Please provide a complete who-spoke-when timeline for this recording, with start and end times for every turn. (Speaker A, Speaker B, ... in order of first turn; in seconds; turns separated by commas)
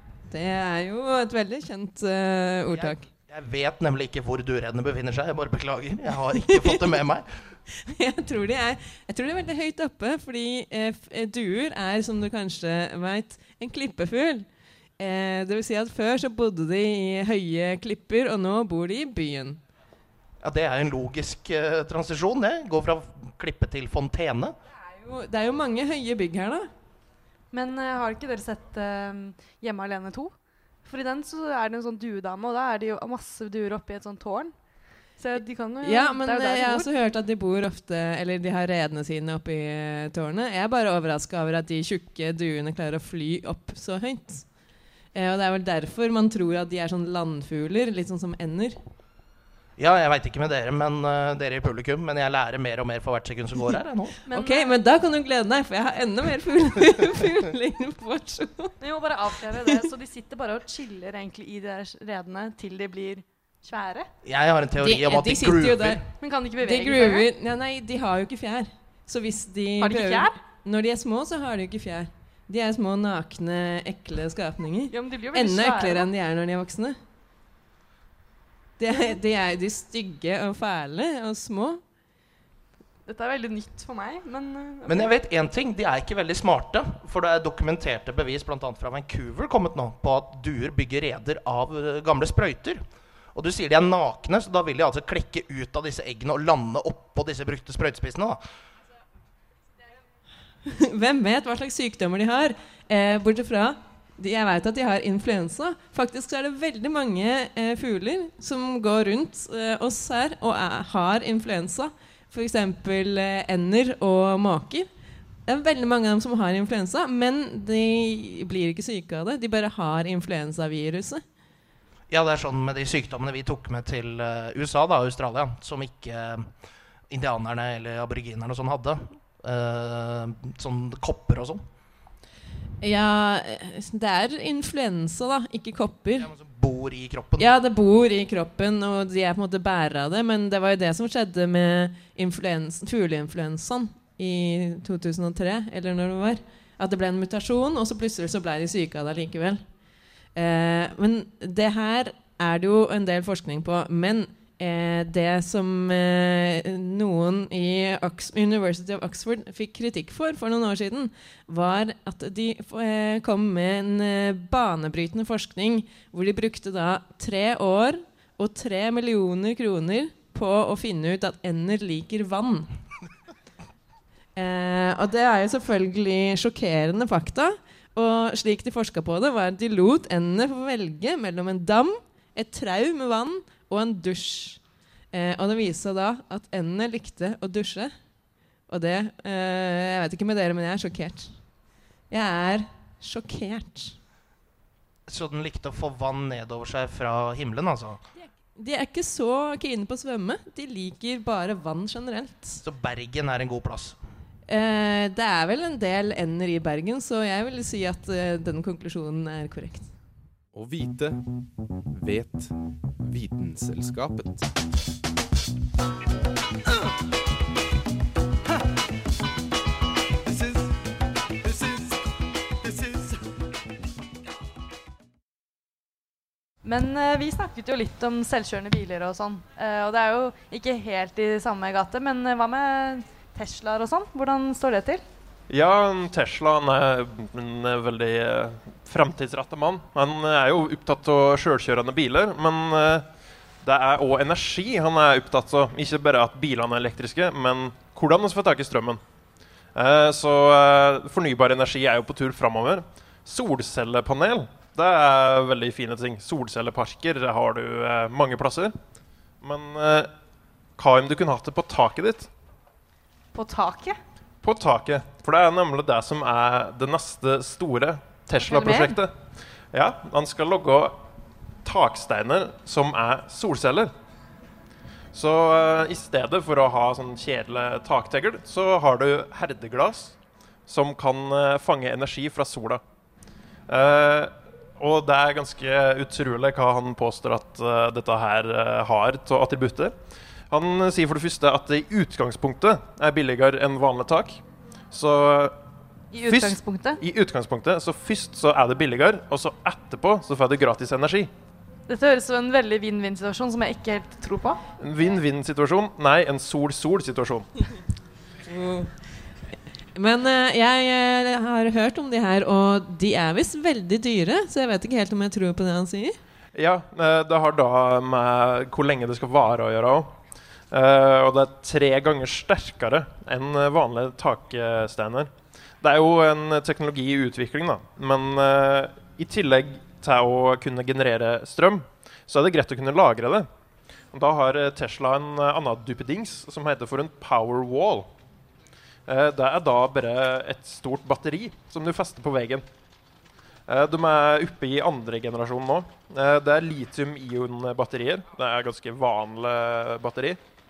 Speaker A: 0.3-3.0, Speaker B: 2.7-7.3, Speaker A: 6.5-6.8, Speaker A: 7.8-14.5, Speaker A: 15.0-19.6, Speaker B: 20.4-24.6, Speaker A: 24.9-26.7, Speaker C: 27.5-30.3, Speaker C: 30.8-34.5, Speaker C: 35.2-36.9, Speaker A: 35.8-44.5, Speaker A: 45.1-48.8, Speaker B: 49.8-54.2, Speaker C: 54.3-54.7, Speaker A: 54.3-58.8, Speaker C: 58.8-64.1, Speaker A: 59.4-59.9, Speaker B: 64.2-66.0, Speaker A: 64.8-66.1, Speaker C: 66.2-67.3, Speaker A: 66.6-77.0, Speaker C: 69.8-70.3, Speaker C: 74.9-76.1, Speaker A: 78.8-81.8, Speaker C: 83.1-85.1, Speaker B: 84.9-92.8, Speaker B: 93.3-98.4, Speaker A: 100.7-114.9, Speaker A: 115.5-121.2, Speaker B: 122.1-126.5, Speaker B: 127.1-131.6, Speaker A: 132.8-136.3, Speaker B: 136.2-137.5, Speaker A: 137.4-149.6, Speaker A: 150.3-172.7, Speaker A: 174.4-184.6, Speaker A: 185.1-187.9, Speaker A: 188.7-191.4, Speaker A: 192.1-194.0, Speaker B: 195.1-198.0, Speaker A: 198.6-202.6, Speaker B: 202.6-204.0, Speaker A: 204.5-209.9, Speaker D: 210.5-214.5, Speaker C: 226.6-235.0, Speaker E: 235.5-243.1, Speaker E: 243.6-249.0, Speaker E: 249.8-258.7, Speaker E: 259.4-260.1, Speaker E: 260.8-262.3, Speaker C: 263.3-264.0, Speaker E: 264.4-269.1, Speaker C: 268.4-269.0, Speaker E: 269.7-271.0, Speaker E: 271.6-273.9, Speaker E: 275.1-280.2, Speaker E: 280.7-282.8, Speaker E: 283.7-289.9, Speaker E: 290.5-295.6, Speaker C: 296.1-297.0, Speaker E: 296.2-301.3, Speaker C: 301.9-304.6, Speaker E: 304.8-307.6, Speaker A: 308.5-308.9, Speaker A: 309.9-316.2, Speaker E: 316.6-320.1, Speaker E: 320.7-333.5, Speaker E: 334.1-338.1, Speaker E: 339.1-342.6, Speaker E: 343.7-350.4